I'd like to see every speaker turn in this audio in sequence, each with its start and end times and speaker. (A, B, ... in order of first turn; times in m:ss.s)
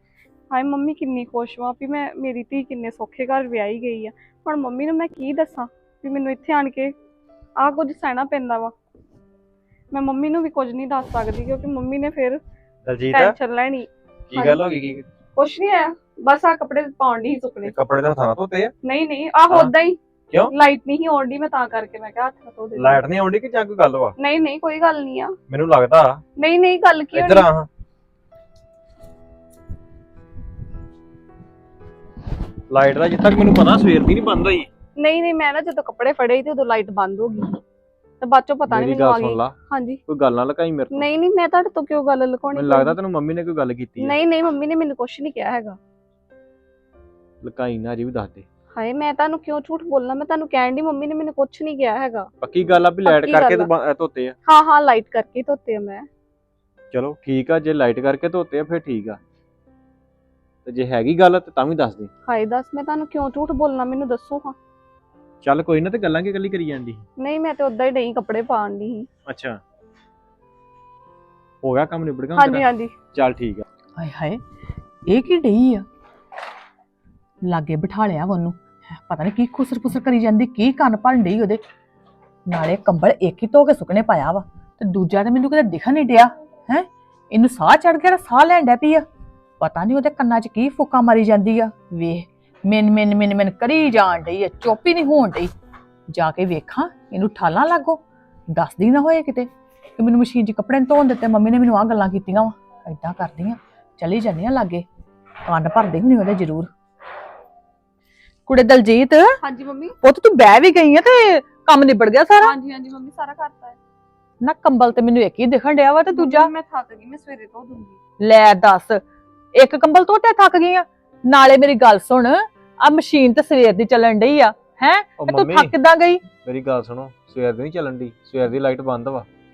0:00.5-0:06.9 A
0:07.6-0:08.7 A
0:09.9-0:12.4 A
0:12.8-0:13.4 B
0:13.1-0:14.6 A
0:14.3-0:15.1 B
0:15.4-0:17.8 A
0:17.6-0:18.7 B
0:18.8-0:23.0 A
0:22.8-0:24.2 B
0:24.2-0:25.4 A
0:25.5-0:26.2 B
0:26.4-0:27.5 A
0:27.1-0:27.7 B
0:32.7-0:34.7 B
0:35.0-0:37.6 A
0:38.2-0:40.0 A
0:38.7-0:39.6 B
0:40.1-0:41.1 B
0:40.9-0:43.0 A
0:42.5-0:44.2 B
0:44.0-0:45.8 A
0:47.4-0:48.4 B
0:48.7-0:52.3 A
0:52.4-0:54.4 B
0:53.0-0:53.7 A
0:54.4-0:56.1 A
0:56.9-0:59.2 B
1:00.7-1:02.1 B
1:02.3-1:04.6 A
1:05.4-1:07.0 B
1:07.2-1:09.1 A
1:09.3-1:09.6 B
1:11.6-1:13.6 B
1:12.4-1:13.0 A
1:14.0-1:14.4 C
1:15.1-1:15.8 C
1:17.5-1:21.6 C
1:22.5-1:29.0 C
1:29.6-1:35.5 C
1:36.1-1:38.0 C
1:38.6-1:44.8 C
1:45.5-1:46.7 C
1:48.5-1:49.4 C
1:49.4-1:50.0 A
1:50.0-1:52.5 C
1:52.4-1:53.8 A
1:54.4-1:56.5 C
1:56.0-1:58.0 A
1:58.2-1:59.0 C
1:59.6-2:06.2 C
2:05.2-2:05.8 B
2:06.3-2:09.3 B